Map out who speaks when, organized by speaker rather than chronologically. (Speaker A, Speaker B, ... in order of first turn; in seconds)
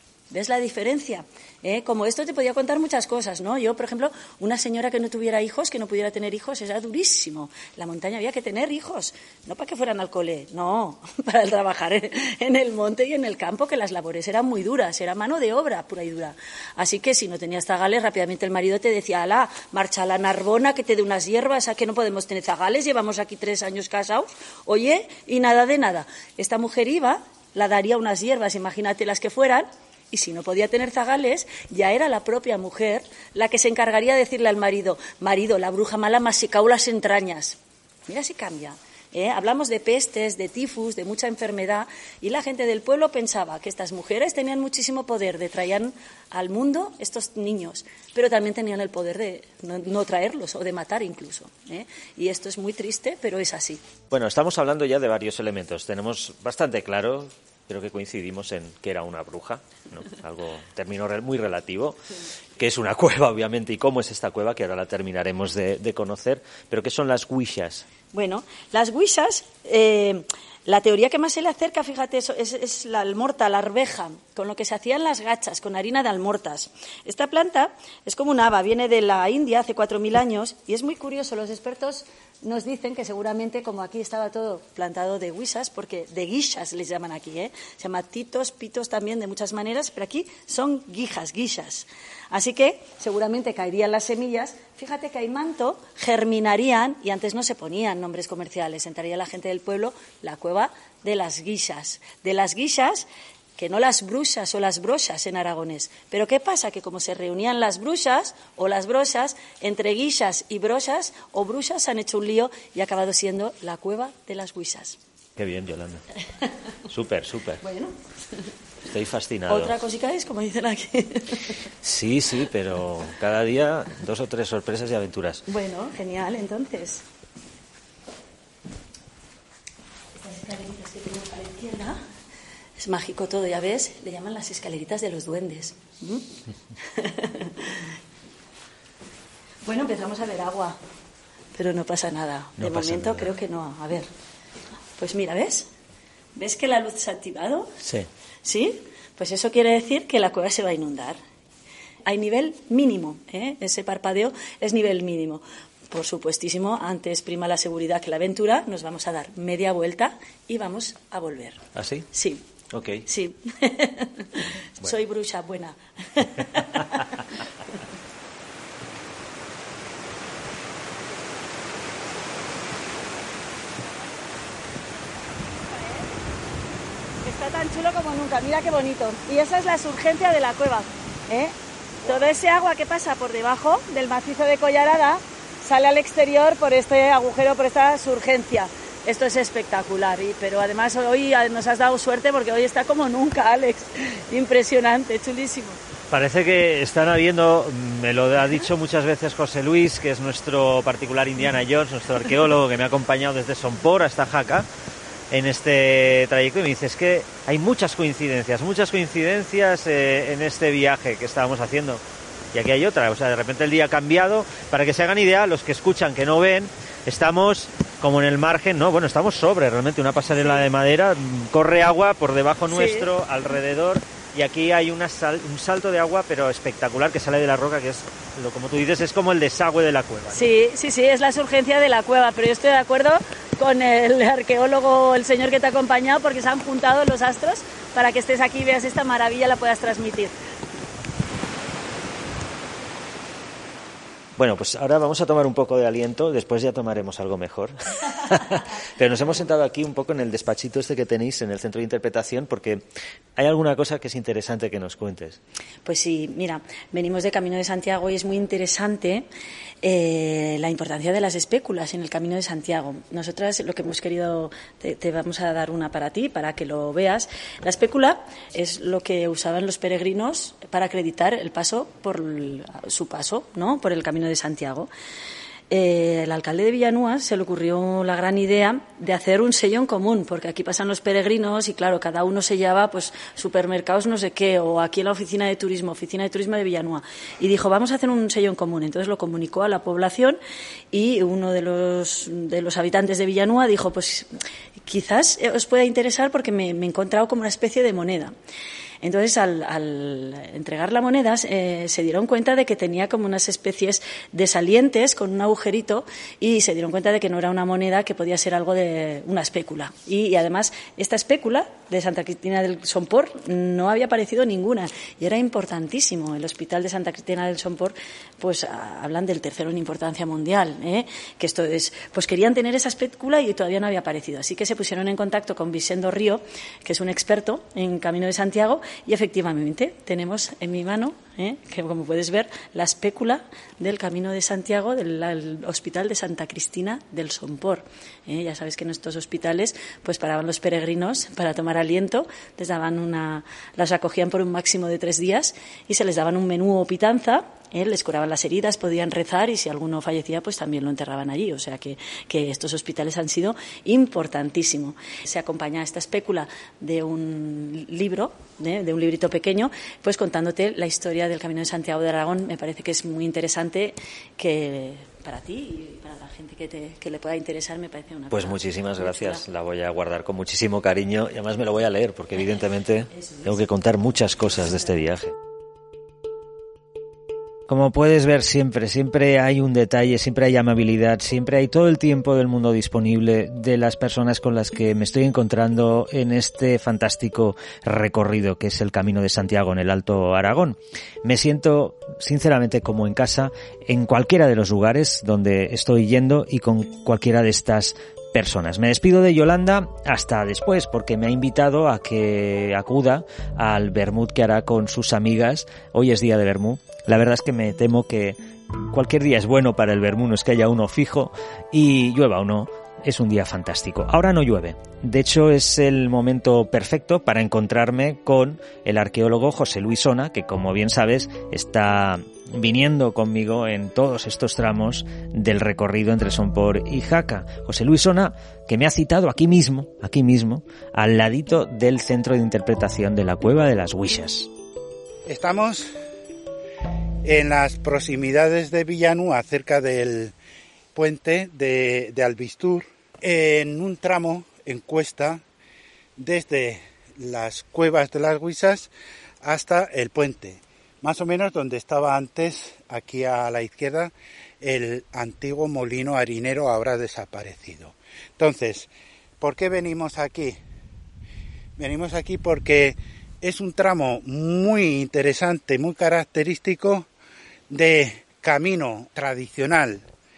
Speaker A: 0.3-53.8, 68.1-115.0, 117.6-118.0, 119.5-121.5, 125.5-127.0, 130.1-132.0, 132.8-136.3, 136.8-137.9, 139.6-140.8, 141.5-144.1, 145.0-145.7, 146.3-147.8, 148.4-151.2, 152.1-162.5, 163.1-167.2, 175.0-176.2, 177.2-195.8, 222.7-223.1, 230.3-240.3, 255.8-259.3, 259.8-274.9, 275.7-290.4, 290.9-298.3, 299.0-369.4, 373.2-373.5
Speaker B: 54.1-62.0, 62.6-67.8, 115.4-116.0, 116.9-117.6, 118.8-119.8, 121.8-125.4, 142.6-143.3, 147.8-148.1, 161.8-162.1, 162.7-163.1, 196.1-204.7, 205.3-212.0, 212.5-230.5, 244.4-252.8, 253.4-255.4, 368.3-375.4, 377.7-434.5
Speaker C: 435.3-435.9, 437.2-440.3, 440.9-445.4, 446.2-448.9, 449.4-458.9, 459.4-460.6, 461.8-467.1, 467.7-470.0